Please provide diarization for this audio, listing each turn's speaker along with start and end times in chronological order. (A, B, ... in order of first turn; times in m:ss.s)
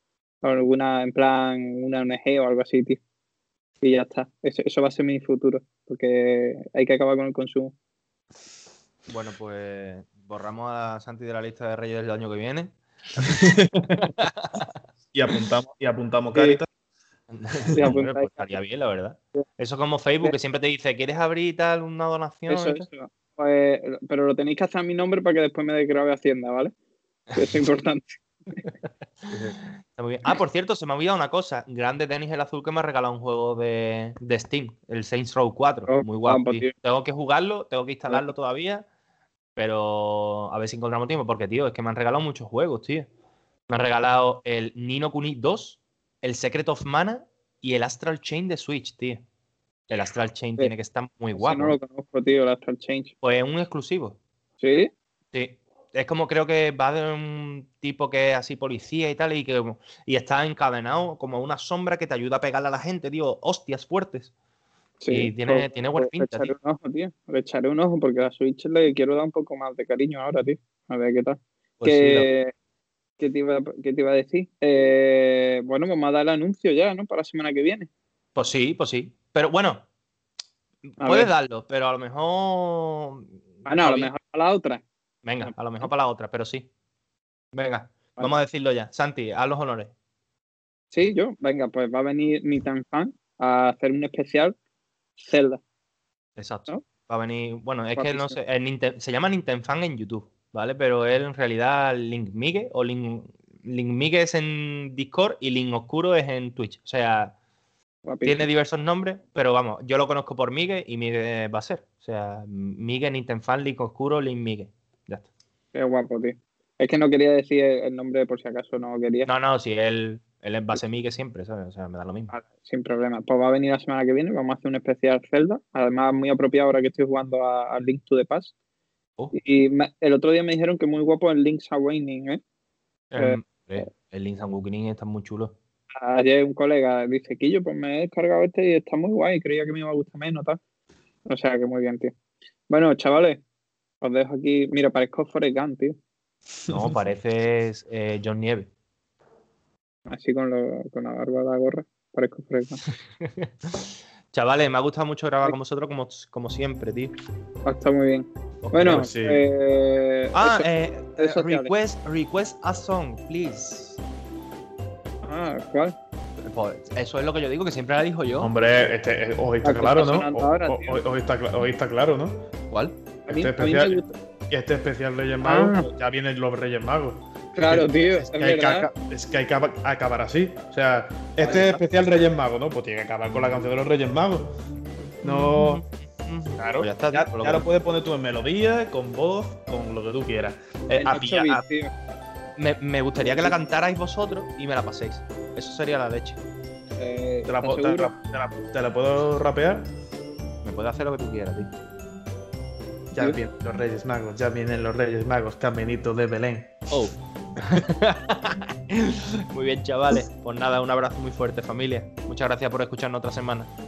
0:00.4-0:03.0 A
0:03.8-0:07.7 A
0:09.1-0:13.4 B
0:13.2-0:14.1 C
0:14.2-0:14.8 B
0:15.1-0:16.7 C
0:16.3-0:16.6 A
0:17.3-0:22.9 B
0:17.7-0:18.5 A
0:22.5-0:26.7 A
0:27.3-0:28.6 A
0:29.2-0:38.8 B
0:35.9-0:36.7 A
0:39.6-0:43.1 B
0:43.7-0:49.2 B
0:49.9-0:51.8 B
0:51.4-0:53.1 A
0:53.2-0:54.2 B
0:54.6-0:54.9 A
0:55.3-1:04.3 B
1:05.0-1:12.5 A
1:05.1-1:06.5 B
1:11.8-1:12.3 B
1:13.2-1:17.9 A
1:18.4-1:19.8 B
1:20.9-1:24.1 B
1:21.0-1:21.3 A
1:23.6-1:24.8 A
1:25.2-1:26.7 B
1:25.4-1:25.9 A
1:27.5-1:29.9 B
1:30.9-1:34.5 A
1:35.2-1:35.6 A
1:36.4-1:47.3 B
1:38.0-1:38.4 A
1:48.0-1:48.4 A
1:48.2-1:55.3 B
1:55.7-1:59.3 A
1:59.2-2:02.3 B
2:02.3-2:08.5 A
2:09.3-2:12.4 A
2:13.1-2:15.5 B
2:13.2-2:13.8 A
2:16.0-2:20.6 A
2:21.3-2:22.1 A
2:22.7-2:23.4 A
2:24.0-2:26.0 A
2:26.7-2:28.7 B
2:30.1-2:32.8 A
2:32.8-2:37.1 B
2:37.6-2:41.7 A
2:38.6-2:39.1 B
2:38.8-2:39.4 C
2:40.3-2:44.0 B
2:45.2-2:46.0 A
2:46.4-2:48.5 B
2:48.4-2:52.4 C
2:49.6-2:51.0 A
2:52.7-2:53.0 B
2:53.3-2:54.1 A
2:53.3-3:04.5 C
2:55.4-2:55.9 A
2:57.5-2:58.9 A
3:01.4-3:01.8 B
3:05.2-3:05.8 C
3:05.2-3:07.6 B
3:06.6-3:11.6 C
3:11.0-3:11.9 A
3:12.6-3:16.4 B
3:13.2-3:13.5 A
3:17.0-3:18.1 A
3:17.5-3:19.9 C
3:20.6-3:21.7 B
3:23.1-3:26.8 C
3:26.9-3:33.7 B